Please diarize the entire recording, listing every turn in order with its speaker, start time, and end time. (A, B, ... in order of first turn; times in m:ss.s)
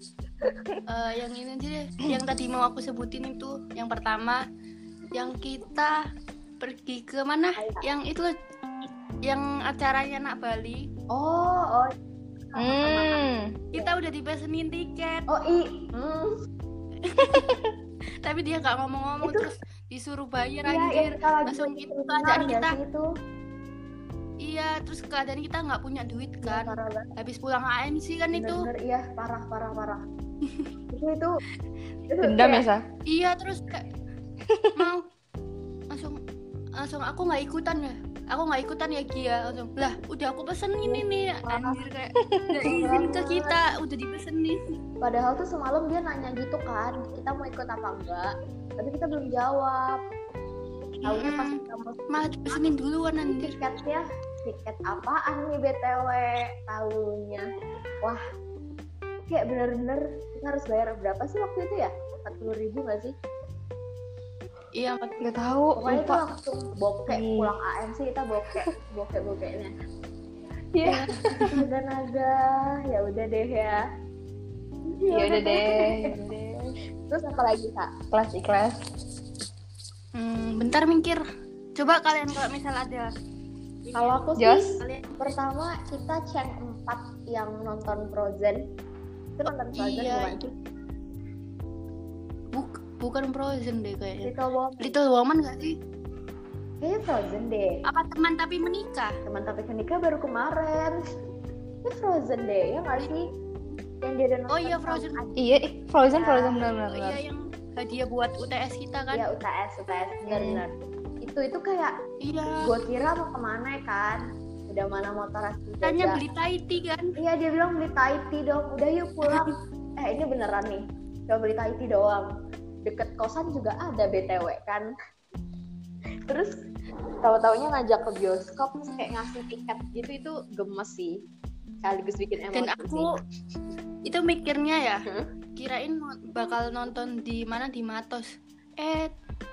0:00.9-0:04.4 A
0:05.1-0:06.0 A
0:06.6-0:08.3 A
0:07.6-0:07.8 B
0:09.2-0:10.9 A
0:11.1-0:12.0 B
0:12.5-0:13.9 B
0:12.6-0:13.6 C
0:13.7-0:15.3 A
0:15.3-0:16.4 B
0:17.0-0:17.5 A
0:17.2-0:17.7 C
0:18.2-0:22.8 A
0:19.2-0:19.5 B
0:20.6-0:23.1 B
0:24.4-0:28.7 A
0:26.4-0:27.1 B
0:28.3-0:30.0 B
0:30.9-0:31.4 B
0:32.1-0:32.7 B
0:32.2-0:32.8 C
0:33.1-0:33.9 A
0:34.4-0:34.9 C
0:34.8-0:35.0 A
0:35.9-0:36.2 A
0:36.8-0:44.8 A
0:40.8-0:41.8 B
0:42.2-0:42.8 C
0:42.6-0:43.6 B
0:45.0-0:50.0 B
0:51.0-0:51.6 A
0:51.0-0:52.6 B
0:52.1-0:53.6 A
0:53.2-0:57.5 B
0:59.3-1:03.1 B
1:04.8-1:05.3 A
1:05.2-1:06.2 C
1:05.8-1:09.7 B
1:07.1-1:07.5 C
1:10.8-1:11.6 C
1:10.9-1:11.6 A
1:10.9-1:13.8 B
1:15.1-1:16.2 B
1:15.1-1:16.7 C
1:17.1-1:17.9 B
1:18.1-1:18.8 C
1:20.2-1:21.2 A
1:21.8-1:23.1 A
1:23.9-1:24.3 A
1:24.0-1:28.6 B
1:24.4-1:24.7 C
1:24.8-1:25.2 A
1:29.4-1:30.4 B
1:29.7-1:30.5 A
1:32.5-1:35.8 A
1:34.2-1:35.0 B
1:36.8-1:37.8 B
1:37.9-1:39.2 A
1:39.2-1:41.1 B
1:41.8-1:43.3 B
1:44.0-1:45.4 B
1:44.5-1:45.2 A
1:45.4-1:47.2 C
1:46.1-1:46.7 B
1:46.9-1:49.2 A
1:49.1-1:52.0 B
1:50.3-1:50.6 C
1:52.2-1:52.7 A
1:52.6-1:56.2 B
1:55.8-1:57.2 A
1:57.2-2:02.3 B
2:02.8-2:04.9 B
2:06.3-2:06.6 B
2:07.2-2:11.2 B
2:11.8-2:13.1 B
2:12.5-2:13.1 A
2:14.0-2:15.0 A
2:15.6-2:19.1 A